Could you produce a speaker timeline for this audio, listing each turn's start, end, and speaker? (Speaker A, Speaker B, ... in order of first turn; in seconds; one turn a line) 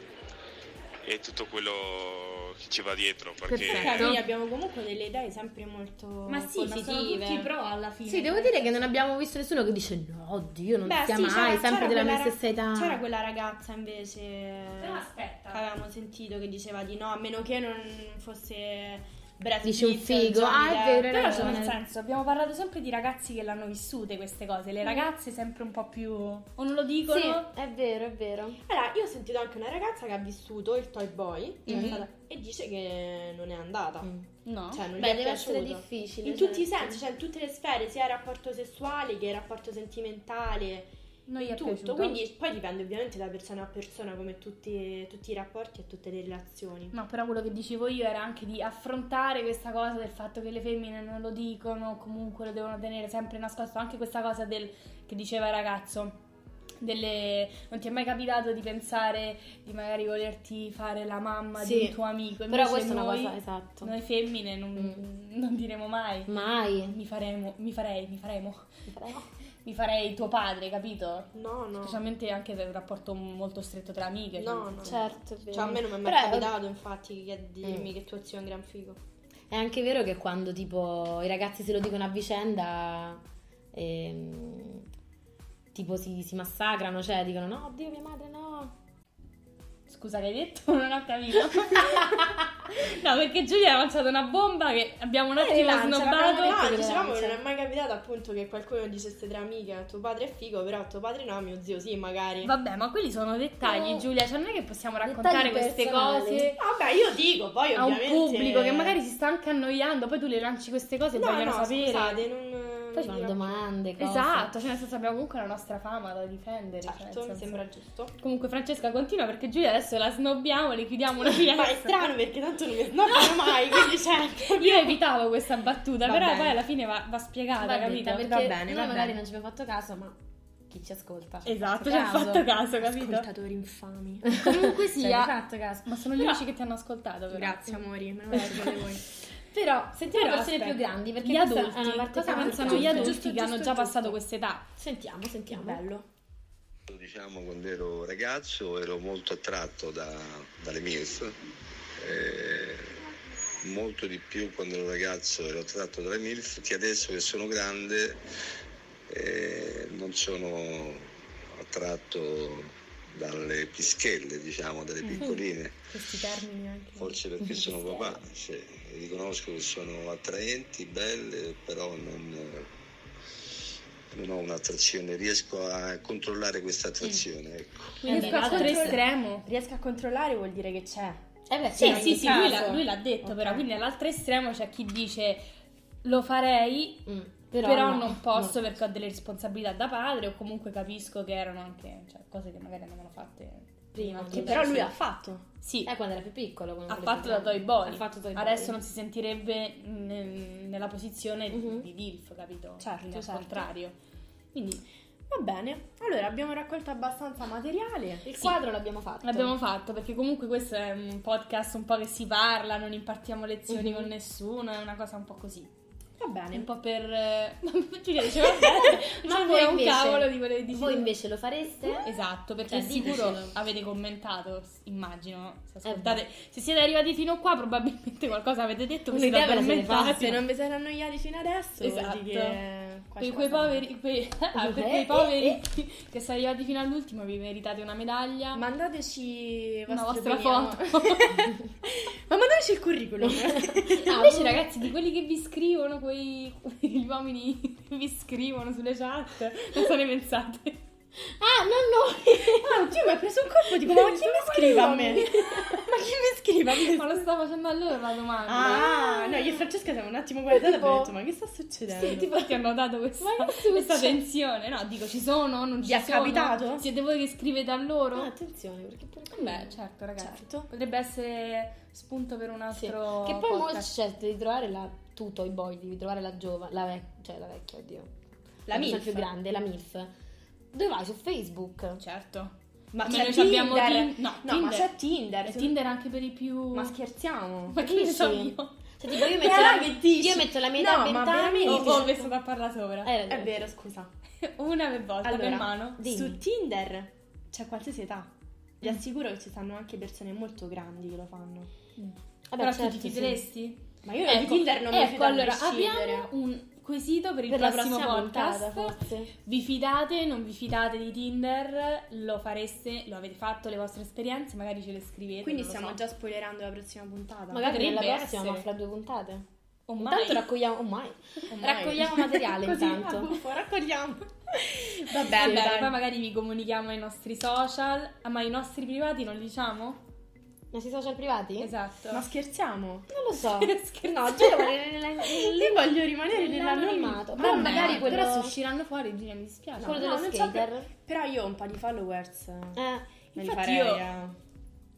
Speaker A: 1.1-4.2
Speaker B: 3.5-4.2
Speaker C: 3.6-7.0
Speaker B: 6.3-8.9
Speaker D: 6.7-7.5
Speaker D: 8.1-13.0
Speaker C: 10.9-21.7
Speaker B: 14.8-15.6
Speaker D: 19.6-21.8
Speaker B: 21.1-27.5
Speaker D: 27.1-28.6
Speaker C: 28.7-34.1
Speaker B: 31.7-32.1
Speaker D: 31.7-32.0
Speaker B: 34.5-34.8
Speaker C: 34.7-46.9
Speaker D: 34.9-37.0
Speaker B: 41.3-42.2
Speaker B: 46.9-56.2
Speaker B: 56.8-66.3
Speaker D: 61.6-63.9
Speaker D: 64.8-65.0
Speaker D: 66.3-67.0
Speaker B: 66.9-68.7
Speaker D: 68.9-69.3
Speaker B: 69.6-75.2
Speaker C: 71.3-72.0
Speaker C: 74.4-79.0
Speaker D: 74.8-76.6
Speaker D: 77.6-77.9
Speaker D: 79.5-84.9
Speaker D: 85.7-88.8
Speaker B: 89.9-97.0
Speaker C: 95.4-102.5
Speaker D: 96.2-97.4
Speaker B: 102.4-106.6
Speaker D: 103.6-104.1
Speaker D: 105.0-106.5
Speaker C: 106.6-109.0
Speaker B: 107.8-112.2
Speaker C: 111.2-113.6
Speaker D: 113.0-114.5
Speaker B: 114.0-117.6
Speaker C: 116.8-118.1
Speaker B: 118.2-122.1
Speaker C: 121.3-125.0
Speaker B: 124.5-128.6
Speaker C: 126.0-126.6
Speaker D: 127.6-130.2
Speaker C: 128.3-129.2
Speaker D: 130.7-132.5
Speaker B: 131.4-133.3
Speaker C: 132.8-134.4
Speaker D: 134.3-135.9
Speaker B: 134.4-137.8
Speaker C: 137.3-139.0
Speaker D: 138.4-138.7
Speaker B: 138.4-138.7
Speaker D: 139.5-143.2
Speaker B: 140.0-144.7
Speaker C: 142.3-144.2
Speaker D: 144.8-145.8
Speaker C: 145.5-146.1
Speaker E: 146.9-151.4
Speaker E: 152.0-153.0
Speaker E: 153.6-158.2
Speaker E: 159.1-165.8
Speaker B: 165.9-167.1
Speaker E: 167.0-172.7
Speaker D: 167.5-168.0
Speaker E: 174.1-178.0
Speaker B: 178.0-179.5
Speaker C: 178.0-182.8
Speaker D: 178.0-179.0
Speaker D: 181.5-182.6
Speaker B: 181.8-185.4
Speaker D: 183.2-183.6
Speaker B: 186.0-187.1
Speaker D: 187.1-188.6
Speaker B: 187.6-194.9
Speaker D: 193.9-194.9
Speaker C: 194.3-195.5
Speaker B: 195.6-195.9
Speaker D: 195.8-198.8
Speaker B: 196.9-204.0
Speaker D: 201.5-201.9
Speaker C: 202.8-203.7
Speaker B: 204.5-204.8
Speaker C: 205.3-208.3
Speaker D: 208.2-209.6
Speaker B: 209.2-215.7
Speaker D: 213.7-214.1
Speaker C: 216.2-216.7
Speaker B: 216.5-221.1
Speaker C: 218.4-219.0
Speaker D: 218.7-222.1
Speaker B: 222.0-230.4
Speaker D: 222.7-223.6
Speaker C: 223.0-223.3
Speaker D: 225.8-226.2
Speaker D: 229.1-230.4
Speaker C: 230.2-233.9
Speaker B: 231.8-232.6
Speaker B: 233.2-238.7
Speaker D: 234.6-235.6
Speaker C: 238.5-244.0
Speaker B: 239.9-241.6
Speaker D: 243.2-244.7
Speaker B: 244.0-250.8
Speaker D: 251.2-253.0
Speaker C: 252.5-257.2
Speaker B: 253.7-255.8
Speaker D: 253.9-255.8
Speaker B: 256.7-259.1
Speaker C: 258.5-262.3
Speaker D: 258.6-259.6
Speaker D: 260.5-261.2
Speaker B: 261.9-268.3
Speaker D: 263.2-264.2
Speaker C: 265.8-266.9
Speaker D: 268.1-269.8
Speaker B: 269.3-273.9
Speaker C: 270.2-270.7
Speaker D: 272.7-280.1
Speaker C: 278.7-279.3
Speaker D: 280.7-282.0
Speaker B: 282.0-286.9
Speaker C: 282.9-285.7
Speaker C: 286.7-287.8
Speaker B: 287.7-289.3
Speaker D: 287.8-292.3
Speaker C: 289.3-292.3
Speaker B: 291.6-293.1
Speaker D: 293.0-293.8
Speaker C: 293.3-294.1
Speaker B: 294.4-296.0
Speaker C: 295.2-301.7
Speaker D: 296.0-296.4
Speaker B: 302.0-316.0
Speaker D: 302.5-303.4
Speaker C: 304.0-306.3
Speaker D: 307.5-309.3
Speaker C: 315.4-317.7
Speaker D: 317.5-319.5
Speaker B: 317.6-318.7
Speaker B: 319.9-320.5
Speaker D: 320.0-323.4
Speaker C: 321.5-326.0
Speaker B: 325.1-330.0
Speaker D: 325.3-325.7
Speaker D: 330.7-331.7
Speaker B: 331.6-332.2
Speaker C: 332.1-333.1
Speaker D: 333.1-338.6
Speaker B: 333.4-334.7
Speaker C: 335.2-338.3
Speaker B: 337.3-340.1
Speaker C: 339.8-342.8
Speaker D: 339.8-340.9
Speaker D: 342.8-343.1
Speaker C: 343.3-344.4
Speaker B: 343.4-344.1